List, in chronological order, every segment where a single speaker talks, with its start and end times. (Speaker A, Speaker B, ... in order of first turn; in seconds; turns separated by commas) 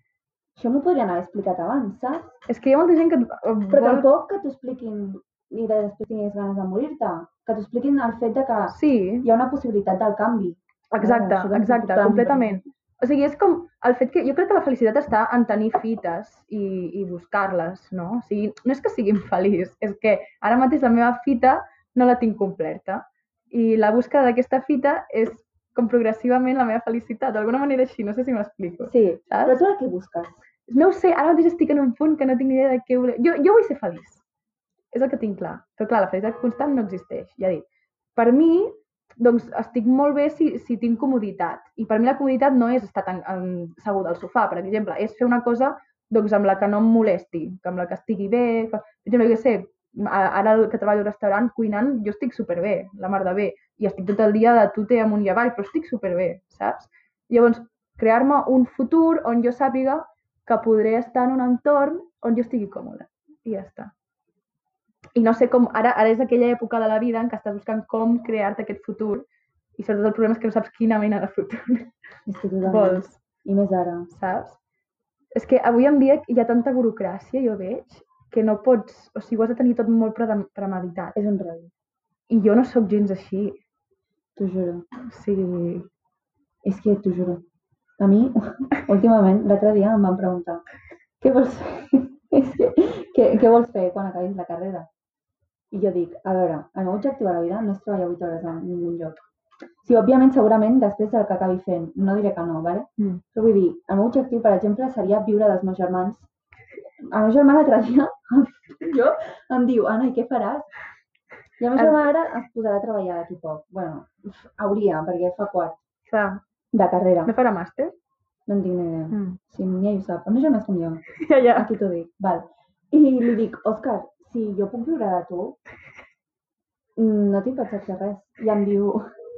Speaker A: 0.6-2.4, Speaker B: 2.5-4.1, Speaker A: 3.7-12.6, Speaker B: 8.7-9.3, Speaker B: 10.9-29.6, Speaker A: 28.9-30.4, Speaker B: 30.7-34.2, Speaker B: 34.9-63.9, Speaker B: 65.2-71.9, Speaker A: 72.3-74.1, Speaker B: 72.7-73.2, Speaker B: 74.1-74.6, Speaker B: 75.3-81.2, Speaker A: 81.2-81.7, Speaker B: 82.3-83.6, Speaker A: 84.4-84.9, Speaker B: 85.1-85.9, Speaker A: 86.6-87.4, Speaker A: 88.0-90.6, Speaker A: 91.2-94.9, Speaker A: 95.7-99.2, Speaker A: 99.8-106.3, Speaker A: 107.1-110.7, Speaker A: 111.6-115.8, Speaker B: 116.1-116.4, Speaker A: 116.7-117.3, Speaker B: 117.2-117.9, Speaker A: 118.5-125.6, Speaker B: 119.1-119.4, Speaker B: 121.1-121.7, Speaker A: 127.0-129.0